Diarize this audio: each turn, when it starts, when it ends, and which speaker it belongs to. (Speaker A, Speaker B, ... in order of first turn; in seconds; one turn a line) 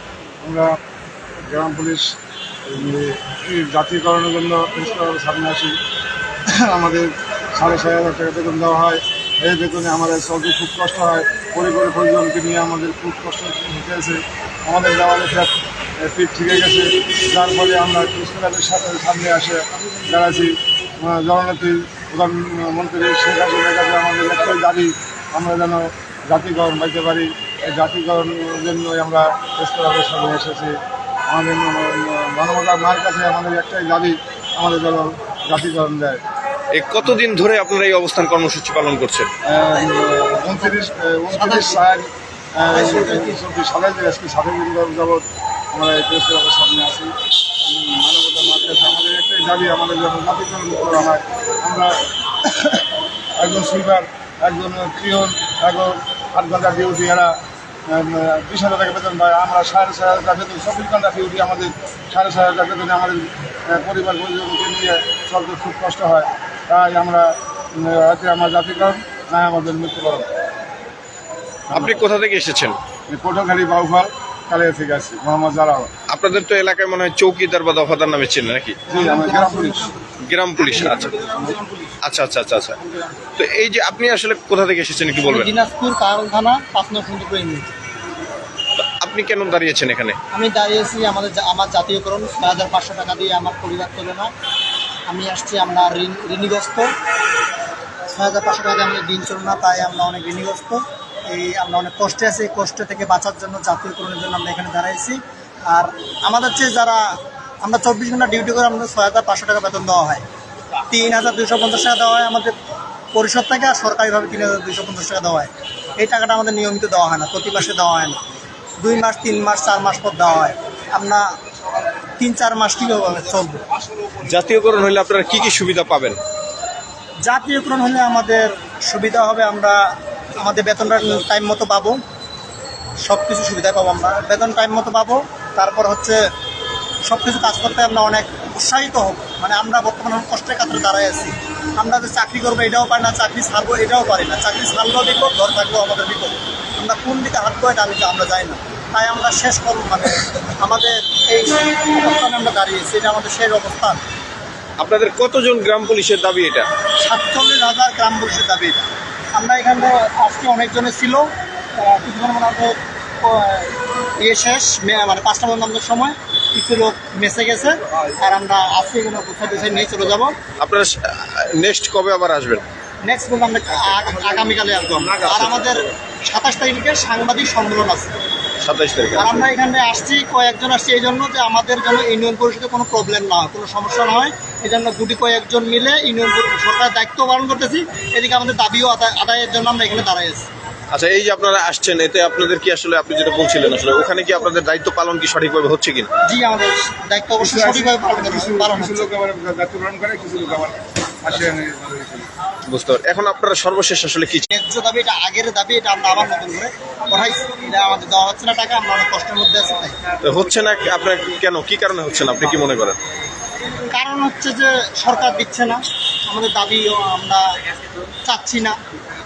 Speaker A: 0.4-0.7
Speaker A: 1.5-2.1
Speaker A: 2.7-5.8
Speaker A: 6.5-36.2
Speaker B: 36.7-39.3
Speaker A: 39.5-47.1
Speaker C: 41.4-41.8
Speaker A: 47.7-52.9
Speaker A: 53.4-70.3
Speaker B: 71.7-72.8
Speaker A: 73.1-75.9
Speaker B: 76.1-78.8
Speaker A: 78.9-79.9
Speaker C: 78.9-79.9
Speaker B: 80.2-81.1
Speaker C: 80.7-82.0
Speaker B: 82.0-82.8
Speaker B: 83.4-85.5
Speaker C: 85.2-87.7
Speaker B: 88.8-90.2
Speaker C: 90.3-94.3
Speaker C: 95.1-96.9
Speaker C: 98.1-105.2
Speaker C: 105.7-107.1
Speaker C: 107.6-110.2
Speaker C: 110.9-112.5
Speaker C: 113.1-118.2
Speaker C: 118.8-121.2
Speaker C: 122.2-123.6
Speaker B: 124.2-126.2
Speaker C: 127.3-129.8
Speaker C: 130.3-132.0
Speaker C: 133.1-136.2
Speaker C: 137.1-154.0
Speaker B: 154.8-156.7
Speaker C: 157.0-161.3
Speaker C: 161.8-170.3
Speaker B: 170.6-172.7
Speaker C: 173.0-178.1
Speaker B: 175.0-175.9
Speaker B: 178.6-179.4
Speaker C: 179.2-190.5
Speaker B: 190.9-196.1
Speaker C: 196.2-199.1
Speaker A: 197.4-202.3
Speaker B: 202.7-204.5
Speaker C: 204.5-210.0
Speaker B: 210.2-213.0
Speaker C: 213.9-217.4
Speaker C: 218.2-218.8